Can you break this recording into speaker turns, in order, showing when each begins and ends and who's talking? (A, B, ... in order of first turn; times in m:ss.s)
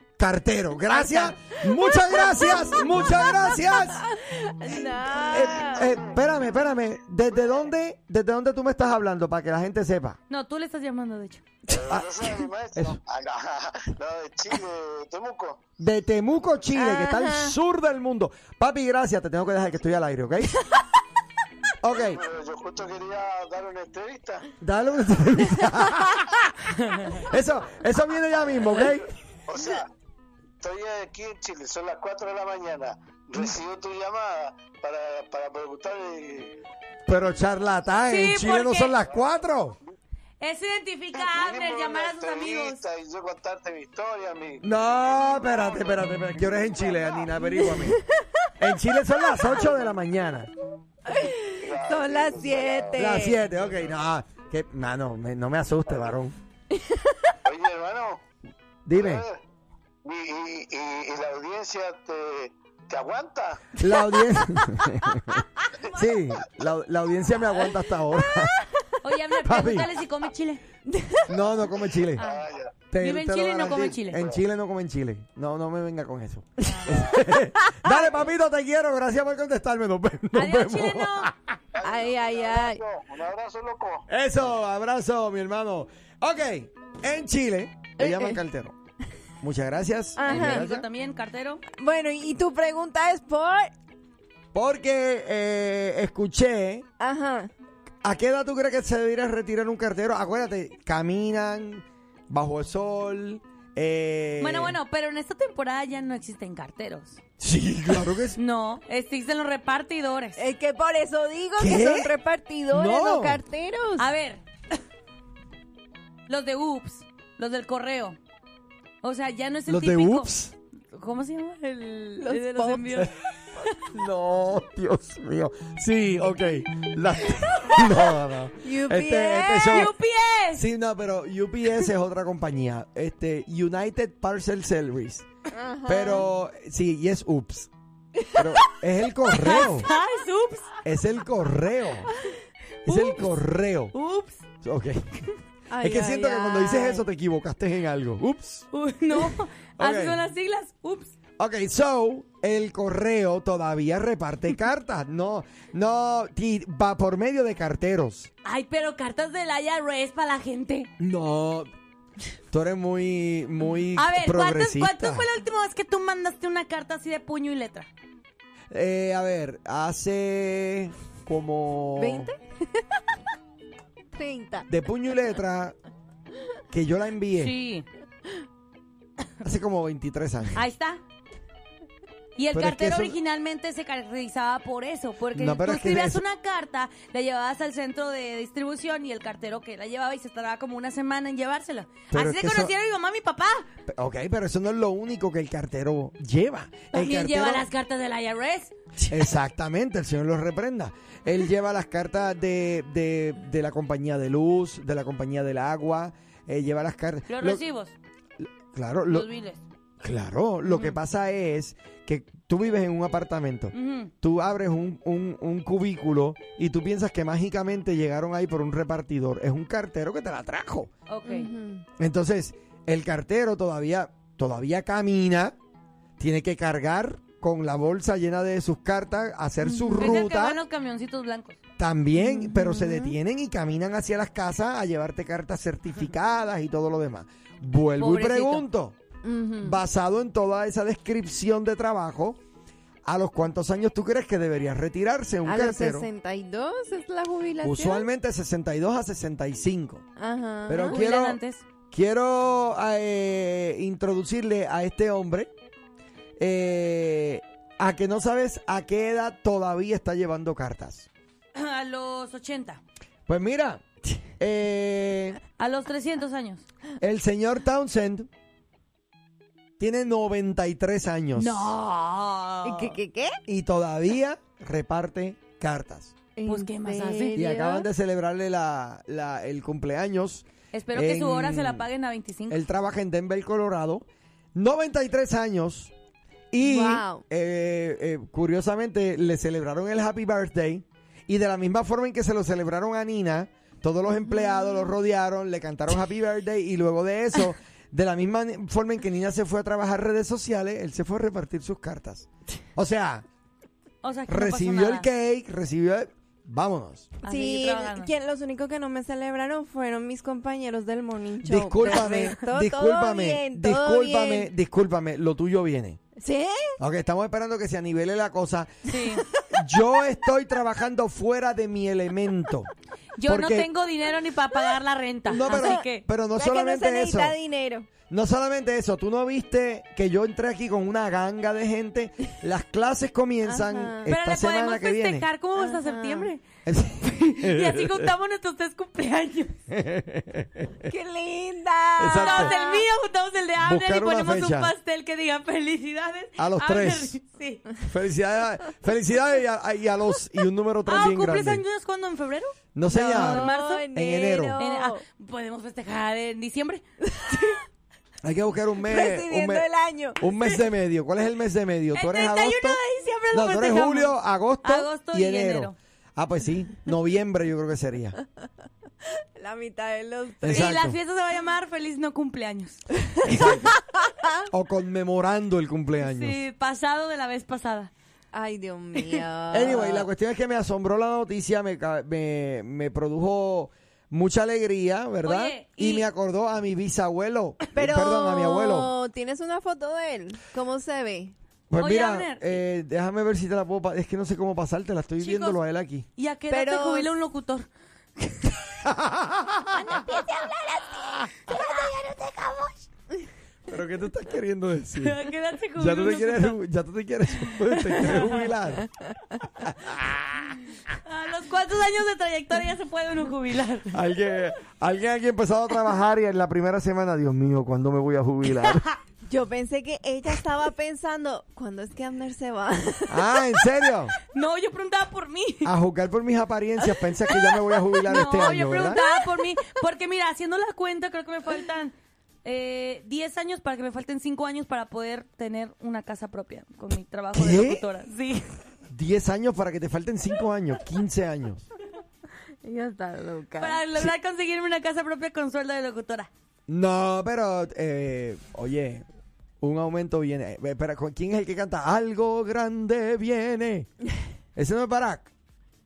0:00.2-0:04.0 A
0:00.9-0:05.9 B
0:05.3-0:06.2 C
0:05.3-0:10.2 A
0:10.3-0:11.4 D
0:11.7-0:15.6 C
0:11.9-0:13.0 A
0:15.8-0:20.6 A
0:16.7-0:17.6 B
0:21.8-0:22.2 A
0:21.9-0:24.5 C
0:24.6-0:29.1 A
0:26.8-0:27.2 D
0:29.5-0:29.9 C
0:30.6-0:36.6 C
0:37.1-0:39.8 A
0:38.1-0:39.0 D
0:40.4-0:42.8 D
0:41.2-0:47.3 C
0:44.6-0:48.0 A
0:47.7-0:48.3 B
0:48.6-0:50.5 A
0:51.1-0:53.4 B
0:51.6-0:53.0 C
0:52.9-0:56.4 A
0:56.7-0:57.3 B
0:57.4-0:58.2 C
0:58.9-0:59.2 A
0:58.9-0:59.4 C
1:00.0-1:03.8 C
1:03.8-1:08.6 A
1:04.1-1:04.8 B
1:08.3-1:08.8 B
1:09.0-1:10.6 D
1:09.4-1:09.9 A
1:10.9-1:11.4 B
1:11.3-1:12.3 A
1:12.2-1:12.8 C
1:12.2-1:12.4 D
1:12.9-1:21.6 A
1:13.0-1:14.2 D
1:14.1-1:14.4 C
1:16.6-1:17.1 D
1:17.7-1:18.1 B
1:20.3-1:21.3 D
1:21.7-1:24.1 C
1:21.8-1:22.8 B
1:24.1-1:28.8 A
1:28.0-1:28.4 B
1:29.4-1:30.9 A
1:30.2-1:30.6 B
1:30.2-1:31.6 D
1:31.8-1:33.7 B
1:34.5-1:36.8 A
1:37.0-1:37.5 B
1:38.0-1:44.8 A
1:44.4-1:47.2 D
1:47.4-1:48.4 A
1:48.3-1:50.4 D
1:50.4-1:54.1 B
1:51.6-1:52.1 A
1:52.7-1:53.4 A
1:54.0-1:54.4 D
1:56.3-1:58.2 D
1:59.0-2:00.3 D
1:59.7-2:00.5 A
2:00.9-2:03.1 D
2:02.2-2:03.1 B
2:03.8-2:09.9 A
2:08.6-2:09.9 B
2:09.7-2:10.7 D
2:10.6-2:15.3 A
2:15.5-2:16.3 B
2:15.9-2:17.7 A
2:18.3-2:19.9 A
2:19.3-2:20.7 D
2:20.8-2:22.1 A
2:22.8-2:23.3 D
2:22.8-2:23.9 A
2:23.9-2:24.4 D
2:24.6-2:25.3 A
2:25.7-2:27.0 B
2:25.8-2:28.7 A
2:28.7-2:31.1 D
2:29.8-2:30.2 A
2:31.4-2:38.3 A
2:38.4-2:40.9 D
2:41.0-2:41.7 A
2:42.5-2:45.3 A
2:44.0-2:47.9 D
2:48.7-2:52.3 A
2:52.0-2:52.8 B
2:54.1-2:54.7 B
2:54.7-2:55.8 A
2:56.7-2:57.6 A
2:57.4-2:57.9 D
2:59.4-3:00.6 A
3:00.5-3:01.0 D
3:02.4-3:13.7 D
3:02.5-3:03.2 A
3:05.3-3:06.2 A
3:12.1-3:12.7 A
3:13.9-3:17.7 A
3:16.9-3:18.7 D
3:19.0-3:27.6 A
3:27.3-3:28.0 D
3:28.4-3:29.3 A
3:29.1-3:29.6 D
3:30.0-3:40.9 A
3:30.7-3:31.0 D
3:33.7-3:34.1 D
3:41.1-3:41.5 D
3:41.2-3:41.9 B
3:42.0-3:45.6 A
3:46.2-3:50.6 A
3:49.6-3:50.2 B
3:50.0-3:51.6 D
3:51.8-3:59.0 A
3:52.2-3:53.2 B
3:58.0-3:58.7 D
3:59.2-3:59.8 B
3:59.6-4:02.4 A
4:03.0-4:06.1 A
4:05.4-4:08.1 B
4:07.6-4:10.0 A
4:10.2-4:11.0 B
4:10.7-4:11.4 A
4:10.8-4:11.6 D
4:11.9-4:15.5 A
4:16.4-4:21.1 A
4:21.6-4:22.8 D
4:23.3-4:25.4 A
4:25.6-4:26.6 D
4:27.0-4:28.3 A
4:29.8-4:31.7 A
4:31.4-4:33.0 D
4:32.6-4:33.4 B
4:33.5-4:36.2 A
4:36.4-4:37.9 B
4:36.5-4:37.4 D
4:37.4-4:41.9 A
4:40.7-4:42.6 D
4:42.5-4:45.9 A
4:46.5-5:03.3 A
4:46.6-4:47.2 B
4:54.3-4:54.9 B
5:04.0-5:05.1 D
5:04.3-5:07.2 A
5:07.2-5:08.1 D
5:07.2-5:14.5 B
5:11.4-5:16.0 A
5:16.2-5:16.8 B
5:16.8-5:18.9 A
5:18.9-5:19.2 D
5:19.0-5:19.6 B
5:19.5-5:22.7 A
5:23.2-5:26.1 D
5:23.3-5:23.7 A
5:25.3-5:27.4 A
5:25.4-5:25.8 B
5:26.4-5:27.9 B
5:28.1-5:35.3 A
5:33.5-5:34.1 B
5:34.1-5:36.4 D
5:35.6-5:36.3 B
5:36.6-5:38.1 A
5:37.0-5:39.6 D
5:39.7-5:40.9 A
5:40.8-5:42.9 B
5:42.0-5:42.6 A
5:42.1-5:47.7 D
5:43.6-5:44.7 A
5:46.4-5:47.2 A
5:47.8-5:51.6 A
5:50.9-5:53.9 D
5:52.8-5:54.6 A
5:52.9-5:55.0 B
5:54.6-5:56.8 D
5:57.1-5:57.6 B
5:58.2-5:59.7 A
5:58.8-6:00.4 B
6:00.2-6:02.8 A
6:01.9-6:05.8 D
6:03.3-6:08.2 A
6:09.4-6:10.8 B
6:10.4-6:11.0 A
6:10.5-6:12.8 D
6:13.3-6:13.8 A
6:13.3-6:14.4 B
6:14.5-6:16.4 A
6:16.0-6:17.9 D
6:18.3-6:20.1 B
6:19.5-6:28.9 A
6:25.2-6:26.1 D
6:27.7-6:31.4 B
6:31.7-6:36.1 A
6:31.8-6:32.6 D
6:35.2-6:35.6 D
6:36.2-6:37.7 D
6:36.5-6:37.1 B
6:38.2-6:38.6 D
6:38.8-6:40.0 A
6:39.7-6:42.9 D
6:39.9-6:41.0 B
6:43.7-6:45.2 A
6:45.0-6:46.6 D
6:45.8-6:48.9 A
6:47.7-6:48.4 D
6:49.6-6:50.5 A
6:50.9-6:54.0 D
6:53.9-6:58.8 A
6:59.3-7:03.5 B
7:03.1-7:04.1 A
7:04.3-7:05.7 D
7:05.6-7:09.0 A
7:08.1-7:18.5 D
7:17.4-7:17.8 A
7:18.9-7:21.7 A
7:22.6-7:23.8 B
7:23.6-7:26.3 D
7:26.7-7:29.0 A
7:29.6-7:33.9 A
7:34.6-7:35.3 A